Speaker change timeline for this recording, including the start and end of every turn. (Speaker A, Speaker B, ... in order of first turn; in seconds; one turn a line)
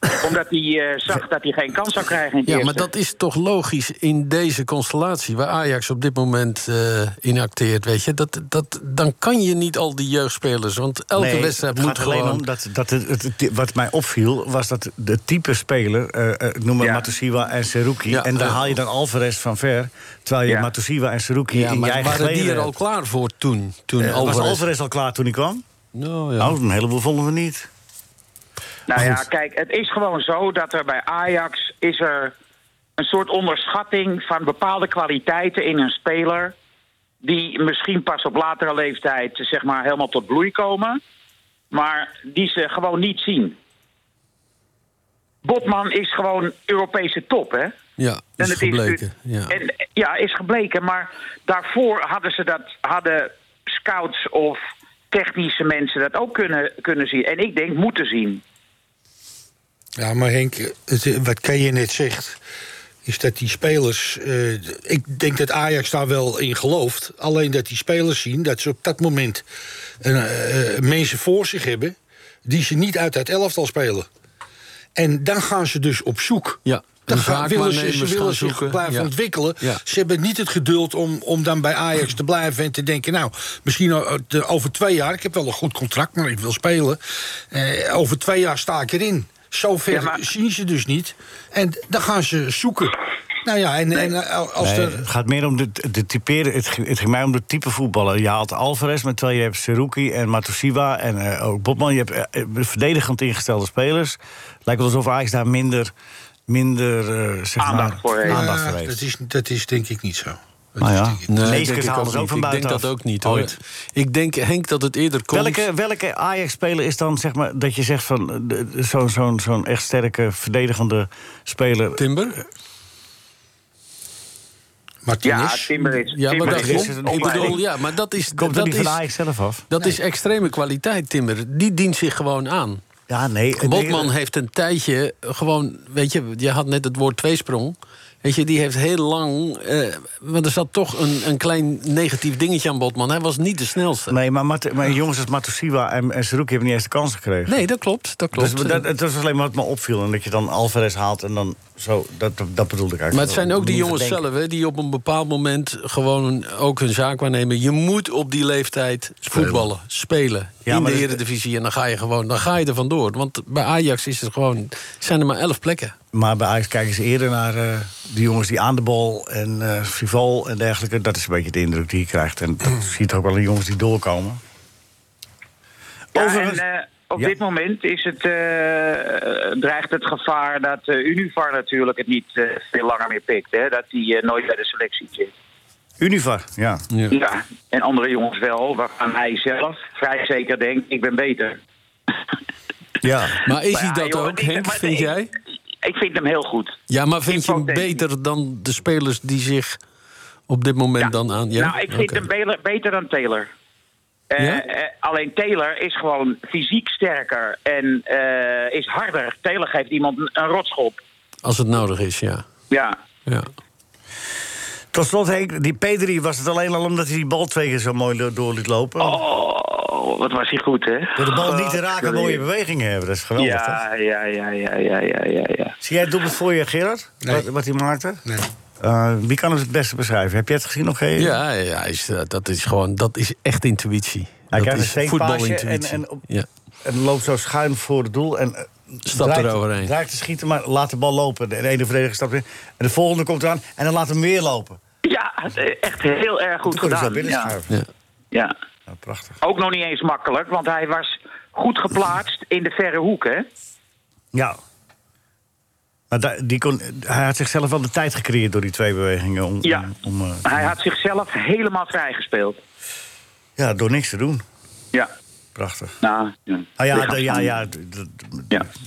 Speaker A: 0.1-2.9
Speaker B: 2.5-12.4
Speaker C: 11.1-22.7
Speaker A: 16.8-17.1
Speaker B: 18.1-18.6
Speaker A: 20.4-20.7
Speaker B: 21.5-24.7
Speaker C: 24.0-25.6
Speaker B: 25.9-26.6
Speaker C: 26.4-27.7
Speaker A: 28.9-32.3
Speaker C: 28.9-29.2
Speaker A: 33.0-36.5
Speaker A: 37.2-41.0
Speaker A: 41.7-43.5
Speaker A: 45.4-47.7
Speaker B: 48.0-49.6
Speaker A: 48.4-58.4
Speaker D: 60.0-62.4
Speaker D: 63.0-69.4
Speaker D: 70.0-74.1
Speaker D: 75.0-87.0
Speaker B: 76.7-79.8
Speaker D: 87.5-95.1
Speaker A: 89.9-90.2
Speaker C: 94.6-105.9
Speaker C: 106.5-109.0
Speaker A: 107.6-108.4
Speaker D: 108.2-111.7
Speaker C: 110.8-113.5
Speaker B: 111.3-115.6
Speaker C: 115.3-122.0
Speaker B: 122.0-122.4
Speaker D: 125.0-125.8
Speaker A: 125.2-127.6
Speaker B: 125.8-129.0
Speaker C: 126.4-127.6
Speaker C: 128.4-129.7
Speaker B: 129.7-132.8
Speaker C: 133.1-134.1
Speaker B: 133.6-144.2
Speaker C: 144.1-147.6
Speaker B: 147.5-148.8
Speaker C: 148.3-154.2
Speaker B: 153.1-165.9
Speaker C: 159.3-159.6
Speaker C: 160.7-161.2
Speaker C: 166.1-174.4
Speaker C: 176.1-176.6
Speaker A: 176.1-185.3
Speaker C: 186.0-186.8
Speaker A: 187.1-191.6
Speaker C: 193.0-193.4
Speaker B: 193.4-195.3
Speaker A: 193.4-195.2
Speaker A: 195.8-198.0
Speaker B: 196.9-199.8
Speaker B: 200.5-202.2
Speaker A: 201.0-203.5
Speaker A: 204.3-211.0
Speaker B: 211.4-212.4
Speaker A: 212.7-212.9
Speaker C: 214.9-219.2
Speaker A: 219.0-222.4
Speaker C: 221.2-223.8
Speaker A: 223.4-225.7
Speaker C: 225.8-228.2
Speaker C: 228.8-231.4
Speaker B: 231.2-236.5
Speaker C: 234.5-236.2
Speaker C: 236.8-244.8
Speaker B: 239.1-239.9
Speaker A: 245.1-247.5
Speaker C: 246.7-247.7
Speaker C: 248.9-249.4
Speaker A: 249.4-253.4
Speaker C: 256.1-260.7
Speaker A: 259.6-259.9
Speaker A: 260.4-262.6
Speaker C: 263.6-264.4
Speaker C: 265.6-266.0
Speaker A: 266.0-267.5
Speaker C: 266.8-268.6